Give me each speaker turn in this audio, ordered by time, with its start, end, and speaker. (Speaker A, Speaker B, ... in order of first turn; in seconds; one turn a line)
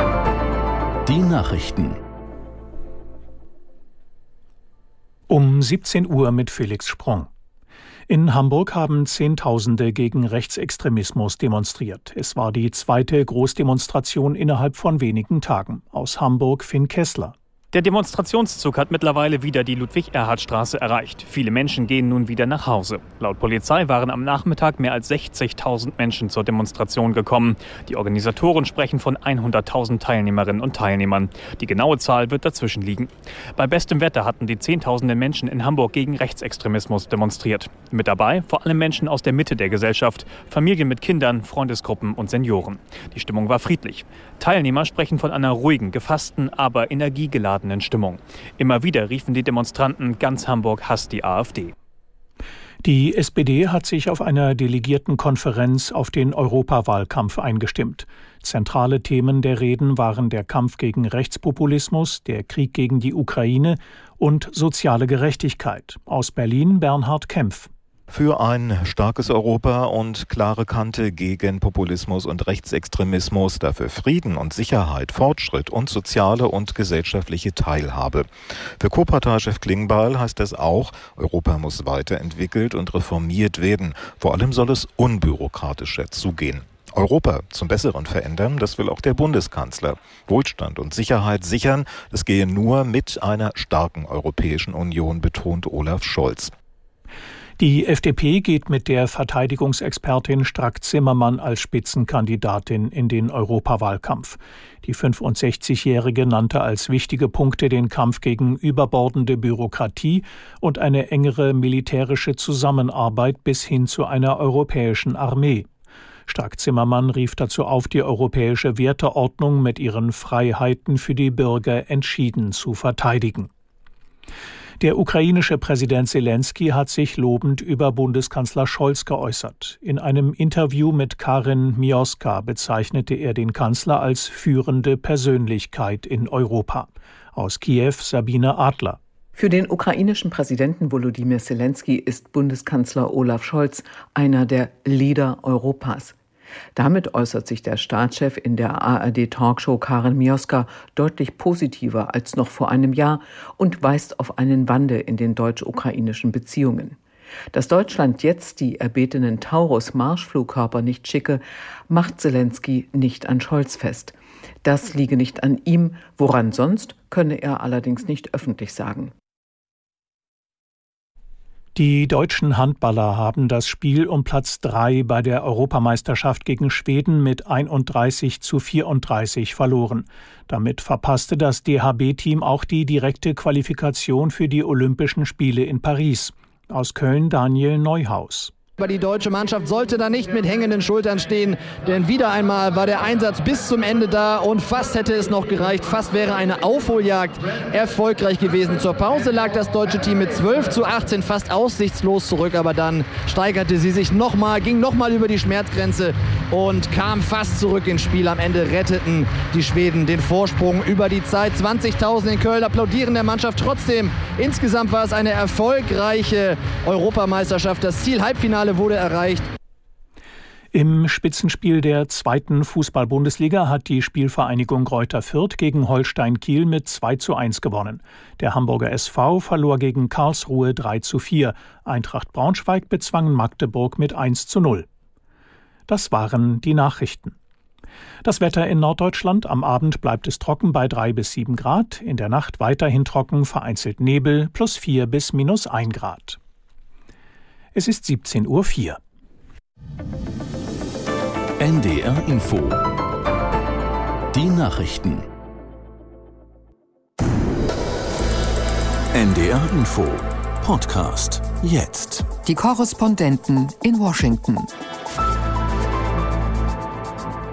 Speaker A: 1.1-2.0
Speaker B: 5.3-7.3
Speaker B: 8.1-17.3
Speaker C: 17.7-51.7
Speaker B: 52.8-67.7
Speaker D: 68.1-78.3
Speaker D: 78.8-96.5
Speaker B: 97.6-115.7
Speaker B: 116.3-123.5
Speaker B: 124.8-139.0
Speaker E: 139.3-146.1
Speaker E: 146.7-157.0
Speaker E: 157.5-169.1
Speaker B: 171.7-188.5
Speaker F: 188.8-219.4
Speaker B: 220.7-234.9
Speaker B: 235.9-237.3
Speaker B: 238.2-246.4
Speaker B: 247.7-249.0
Speaker A: 251.6-252.8
Speaker A: 254.3-255.2
Speaker A: 259.1-262.4
Speaker G: 262.5-264.7